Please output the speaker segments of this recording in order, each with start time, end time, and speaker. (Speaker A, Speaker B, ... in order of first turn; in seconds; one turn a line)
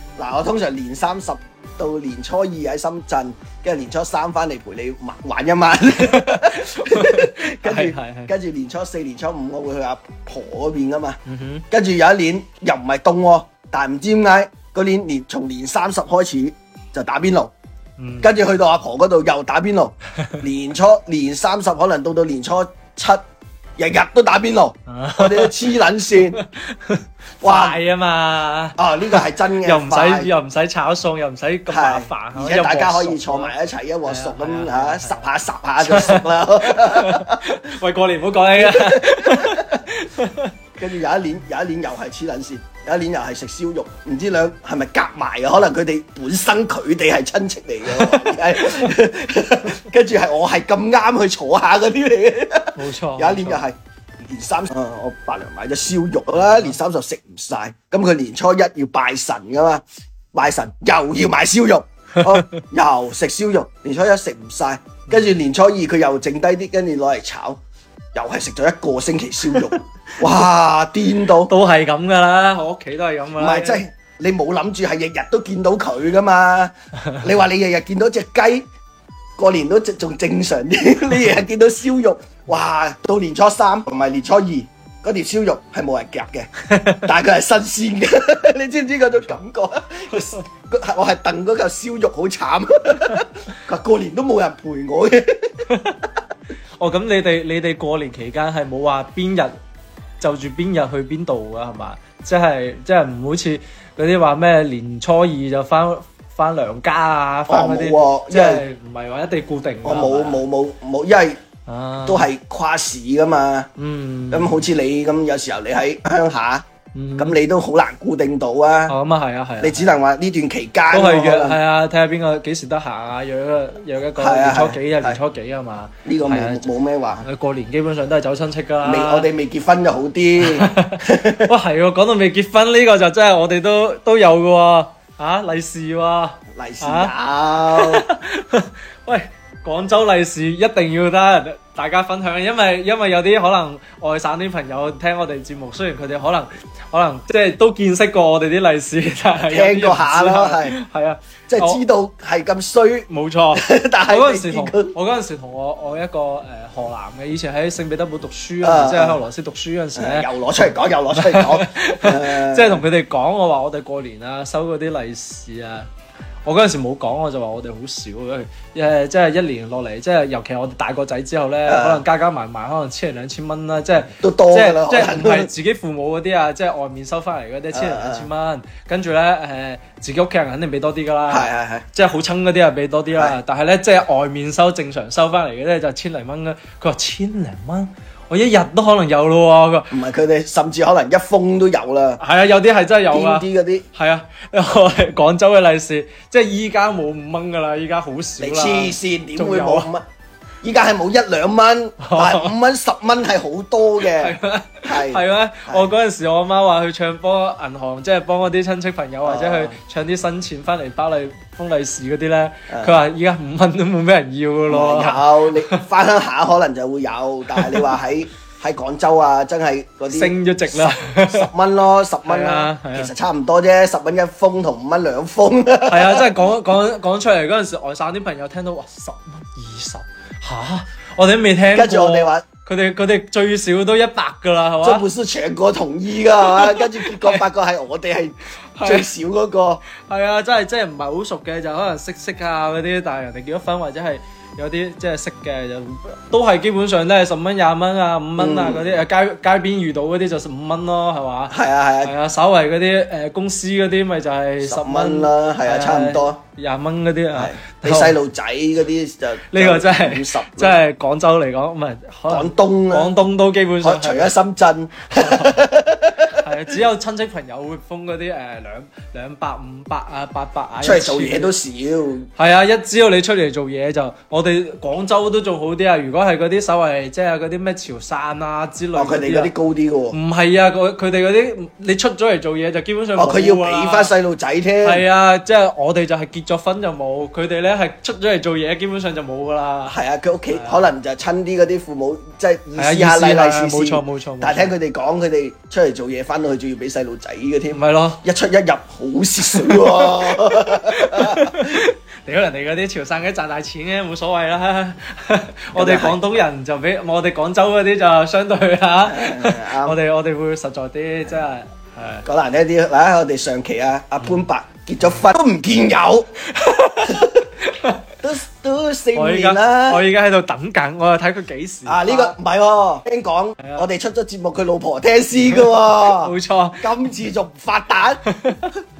Speaker A: 0.2-17.5
Speaker B: 6.0-8.3
Speaker B: 11.2-11.6
Speaker B: 18.0-18.3
Speaker A: 18.2-23.2
Speaker A: 23.8-26.4
Speaker B: 24.9-25.6
Speaker B: 26.3-33.5
Speaker A: 27.4-27.8
Speaker A: 28.8-30.3
Speaker A: 31.7-37.4
Speaker B: 34.0-35.2
Speaker B: 35.8-40.5
Speaker A: 38.5-39.8
Speaker A: 40.8-67.6
Speaker B: 47.9-48.9
Speaker B: 52.7-53.6
Speaker B: 62.2-62.6
Speaker B: 65.1-65.3
Speaker A: 68.1-71.5
Speaker B: 71.5-73.8
Speaker A: 73.4-78.7
Speaker A: 79.4-95.7
Speaker B: 86.7-87.0
Speaker B: 95.7-96.0
Speaker B: 96.8-99.5
Speaker B: 100.2-110.4
Speaker A: 107.5-108.6
Speaker A: 109.8-111.4
Speaker B: 111.7-112.3
Speaker A: 112.0-113.7
Speaker B: 113.8-114.7
Speaker A: 114.3-116.7
Speaker B: 116.9-117.4
Speaker A: 117.2-118.9
Speaker B: 118.9-119.9
Speaker A: 119.6-121.6
Speaker B: 120.9-126.6
Speaker A: 124.2-125.2
Speaker A: 126.0-127.2
Speaker B: 127.2-129.3
Speaker A: 128.8-131.5
Speaker B: 130.4-137.1
Speaker A: 136.5-138.0
Speaker B: 137.7-151.8
Speaker A: 149.4-150.8
Speaker A: 151.5-154.9
Speaker B: 153.1-160.3
Speaker A: 158.6-159.2
Speaker A: 159.9-162.8
Speaker B: 161.1-165.9
Speaker B: 166.4-189.9
Speaker A: 171.7-172.0
Speaker A: 174.2-175.5
Speaker A: 177.7-178.3
Speaker A: 181.3-181.8
Speaker A: 189.9-192.2
Speaker B: 192.2-199.9
Speaker A: 193.1-193.8
Speaker A: 198.4-200.0
Speaker A: 200.6-205.9
Speaker B: 202.0-202.5
Speaker B: 204.2-215.8
Speaker A: 209.2-209.7
Speaker A: 212.7-213.0
Speaker A: 214.7-226.3
Speaker B: 220.1-221.5
Speaker B: 222.2-223.1
Speaker B: 225.8-235.1
Speaker A: 231.7-232.4
Speaker A: 234.8-239.8
Speaker B: 236.4-237.4
Speaker B: 238.8-239.1
Speaker B: 240.0-258.1
Speaker A: 248.4-249.0
Speaker A: 251.5-252.1
Speaker A: 254.6-256.4
Speaker A: 257.3-260.8
Speaker B: 259.5-264.3
Speaker A: 262.3-263.1
Speaker A: 263.8-266.4
Speaker B: 265.1-265.7
Speaker B: 266.3-271.5
Speaker A: 270.8-272.3
Speaker B: 272.4-279.5
Speaker A: 278.9-280.2
Speaker B: 280.1-284.1
Speaker A: 283.2-285.0
Speaker B: 284.8-289.9
Speaker A: 289.9-301.6
Speaker B: 290.5-290.9
Speaker B: 292.8-294.7
Speaker B: 297.7-298.2
Speaker B: 299.5-312.2
Speaker A: 305.7-306.2
Speaker A: 309.1-310.0
Speaker A: 312.2-316.3
Speaker B: 316.5-318.0
Speaker A: 317.1-317.4
Speaker A: 318.2-320.0
Speaker B: 319.1-322.3
Speaker A: 321.9-328.2
Speaker B: 323.6-323.9
Speaker B: 326.1-326.9
Speaker B: 328.2-328.6